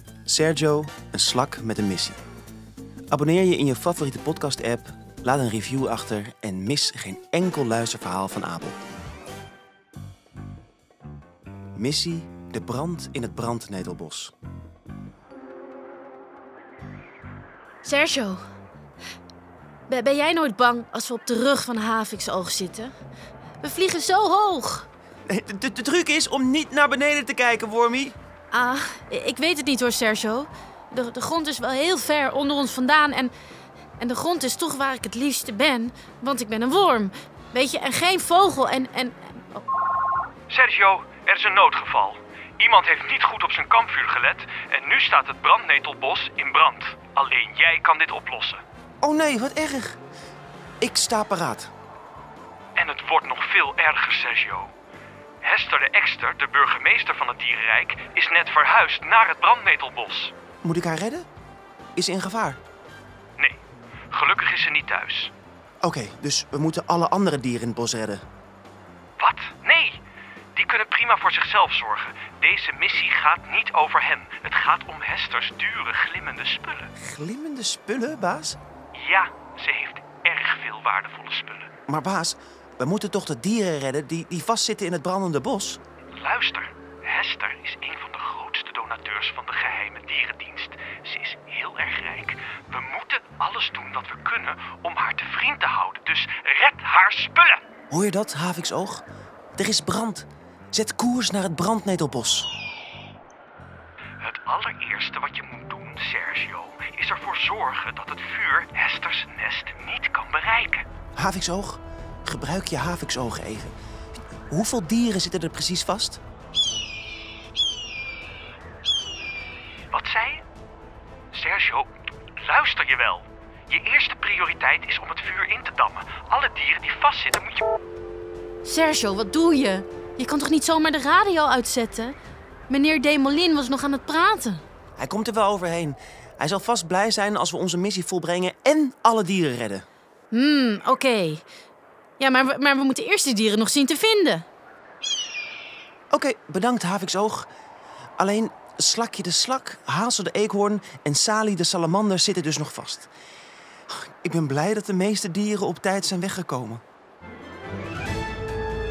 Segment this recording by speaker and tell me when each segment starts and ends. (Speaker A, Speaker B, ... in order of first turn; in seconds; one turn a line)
Speaker A: 0.2-2.2
Speaker A: 3.1-8.8
Speaker A: 11.8-14.3
Speaker B: 17.8-18.4
Speaker B: 19.9-22.9
Speaker B: 23.6-24.9
Speaker A: 25.3-28.1
Speaker B: 28.5-33.3
Speaker B: 34.0-39.6
Speaker C: 40.5-48.6
Speaker A: 49.0-50.0
Speaker A: 50.8-51.7
Speaker C: 52.8-54.7
Speaker C: 55.4-60.3
Speaker A: 60.6-61.2
Speaker A: 62.0-62.6
Speaker C: 64.1-65.3
Speaker A: 65.8-68.2
Speaker C: 69.2-70.0
Speaker C: 70.5-76.9
Speaker A: 77.0-78.6
Speaker C: 78.9-81.7
Speaker A: 81.9-85.8
Speaker C: 86.2-97.6
Speaker A: 97.9-99.0
Speaker A: 99.5-102.5
Speaker C: 104.2-110.8
Speaker A: 111.2-113.7
Speaker A: 114.5-116.2
Speaker C: 119.9-120.4
Speaker C: 121.3-121.9
Speaker C: 122.4-127.6
Speaker B: 128.6-132.1
Speaker B: 132.7-134.6
Speaker A: 135.0-139.8
Speaker B: 140.3-141.4
Speaker B: 142.2-144.4
Speaker A: 146.1-147.5
Speaker A: 148.2-153.1
Speaker A: 153.9-156.8